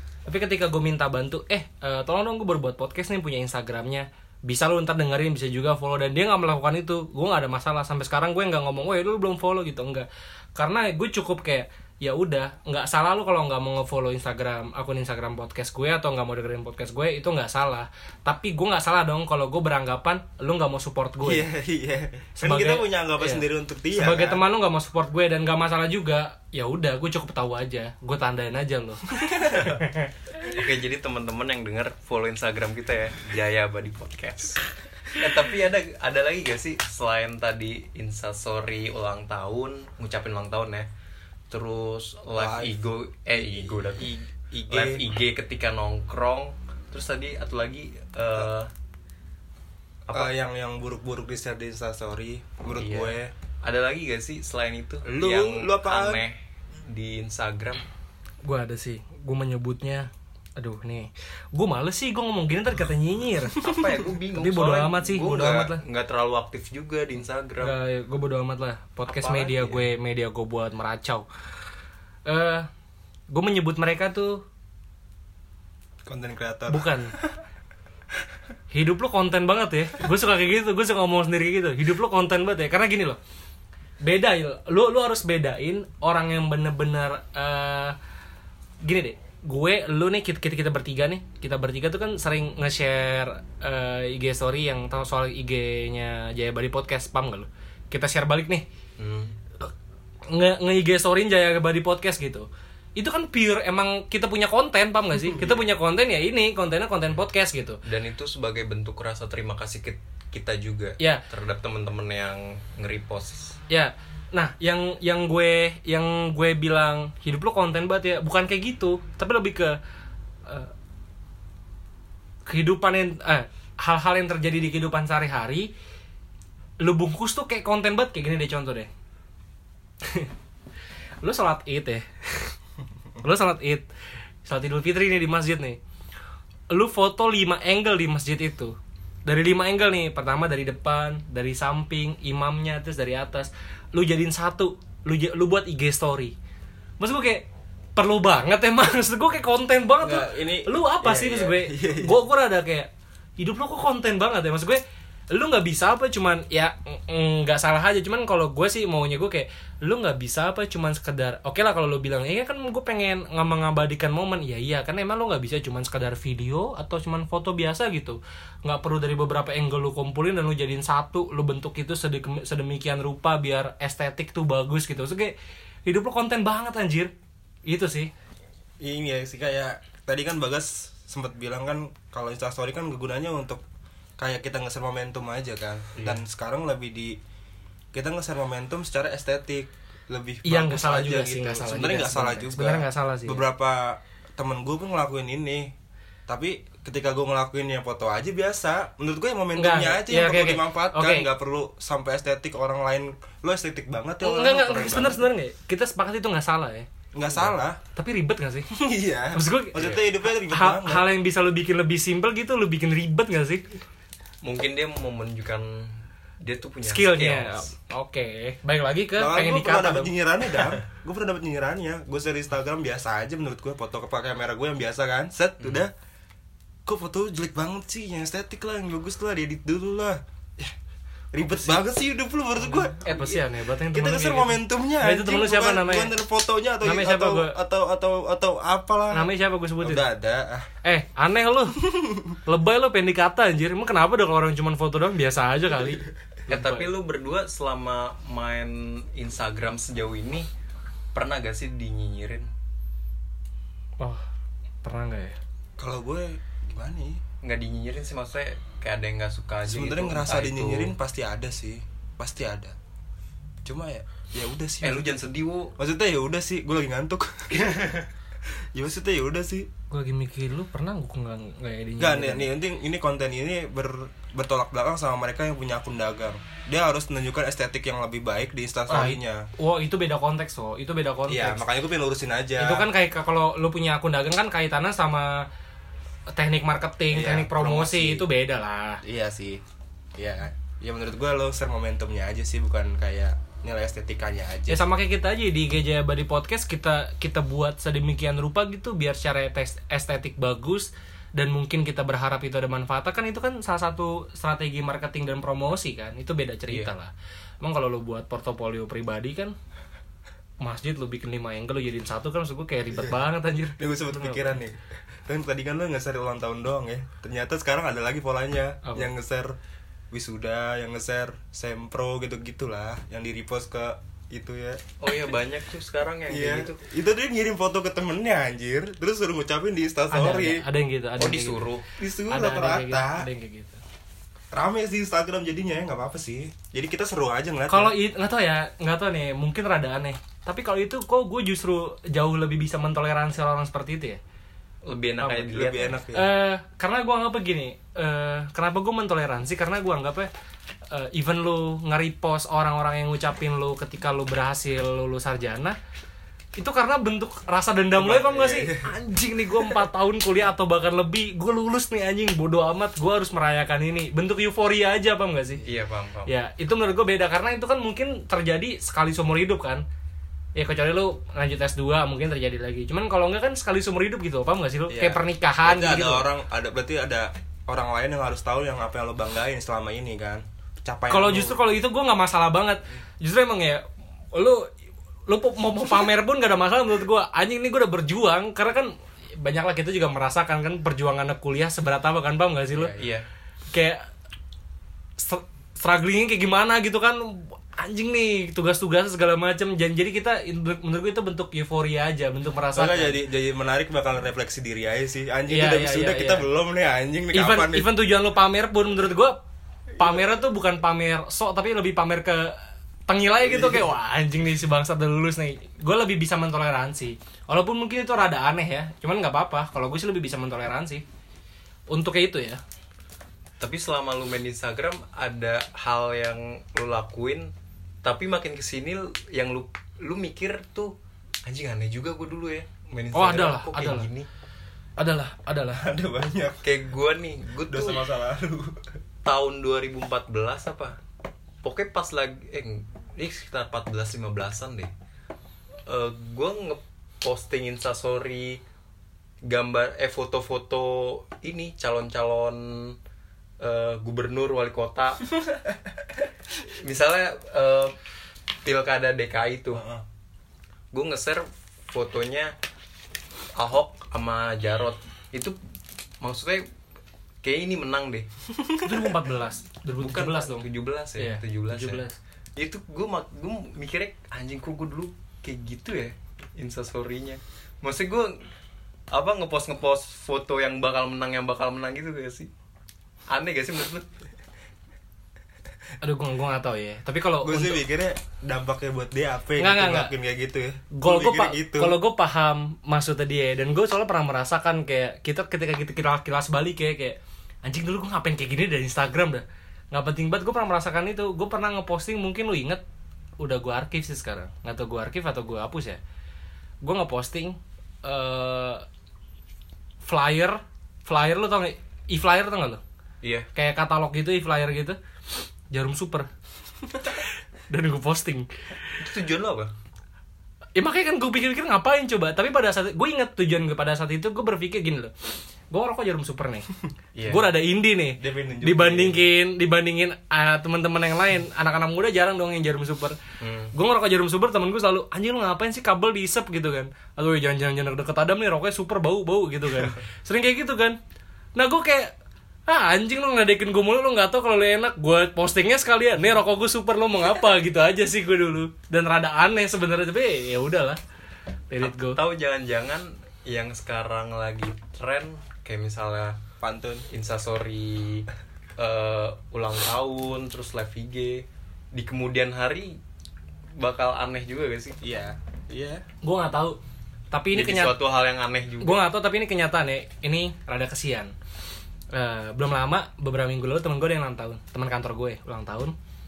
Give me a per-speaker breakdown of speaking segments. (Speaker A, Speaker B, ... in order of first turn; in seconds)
Speaker A: 0.3-21.4, 22.4-29.7, 58.4-63.7, 64.3-65.8, 67.6-71.3, 72.3-72.7, 73.3-74.4, 76.7-77.1, 78.7-83.2, 84.0-88.0, 88.8-98.7, 100.3-107.8, 111.0-111.2, 113.7-119.8, 120.5-120.7, 122.5-125.7, 126.8-128.9, 130.0-130.3, 131.2-132.6, 133.2-133.9, 134.4-135.8, 136.7-146.3, 147.0-175.3, 175.9-177.1, 177.7-178.1, 190.4-193.4, 199.6-201.3, 204.2-206.9, 207.9-208.7, 209.3-213.7, 216.8-220.1, 231.4-231.8, 232.6-236.1, 236.8-237.6, 239.1-240.1, 240.8-246.9, 254.0-254.2, 254.8-255.4, 269.9-272.5, 278.9-281.6, 282.6-285.5, 286.3-289.0, 294.7-309.5, 310.6-314.6, 318.8-319.1, 330.1-331.6, 332.3-333.8, 337.7-344.2, 345.2-350.3, 350.9-355.8, 356.6-365.6, 366.3-369.8, 370.6-376.2, 381.1-384.7, 385.3-393.0, 393.7-394.1, 395.2-403.2, 405.5-406.5, 407.3-409.4, 410.0-421.0, 421.9-422.6, 433.1-434.1, 435.0-435.8, 468.8-470.7, 471.2-472.2, 486.0-487.8, 489.6-490.1, 490.9-502.8, 503.4-506.0, 506.8-508.9, 510.1-512.8, 513.5-515.0, 515.7-516.3, 516.9-519.0, 520.8-526.7, 527.3-533.2, 533.7-541.0, 541.6-542.1, 542.7-551.0, 551.7-552.2, 566.2-566.8, 567.3-568.0, 568.8-571.3, 572.1-576.0
Speaker B: 21.2-24.4, 29.2-29.6, 42.4-42.8, 43.3-45.0, 50.1-53.3, 55.1-56.2, 76.1-77.4, 150.0-152.2, 178.8-183.6, 184.2-187.2, 187.9-195.7, 196.3-205.3, 207.1-207.8, 208.7-211.1, 219.2-225.9, 226.9-230.7, 231.3-240.7, 241.8-242.2, 255.8-257.2, 259.6-262.8, 263.6-268.0, 268.7-269.7, 272.0-279.5, 281.3-282.9, 287.1-288.3, 289.0-289.6, 290.2-294.8, 313.8-319.6, 320.1-324.8, 326.3-330.6, 332.0-333.3, 334.5-337.9, 345.5-346.3, 358.0-358.9, 374.9-381.6, 402.8-407.9, 413.4-413.9, 435.7-436.7, 437.7-439.0, 487.4-492.0, 528.2-529.2, 556.6-557.1, 565.0-566.0
Speaker C: 30.4-40.9, 41.5-48.7, 50.1-50.3, 52.8-57.9, 63.5-67.8, 69.1-69.9, 99.0-99.4, 107.8-113.6, 185.9-186.2, 214.4-217.7, 246.5-250.5, 251.1-252.5, 257.4-260.9, 264.8-265.7, 267.5-268.1, 325.0-326.8, 331.2-332.0, 344.9-345.9, 365.6-366.3, 393.0-393.3, 423.6-427.5, 428.0-434.3, 436.6-438.1, 439.2-441.0, 441.6-444.9, 445.9-448.6, 449.5-453.0, 453.6-455.3, 456.8-457.9, 458.6-459.9, 460.9-462.5, 463.6-465.6, 466.2-466.6, 467.4-468.3, 470.0-472.0, 472.6-478.5, 479.1-482.5, 483.3-484.1, 513.2-513.5, 519.0-519.7, 527.1-527.5, 533.4-533.7, 551.8-556.4, 557.1-558.3, 558.8-563.0, 563.8-565.0, 567.5-569.0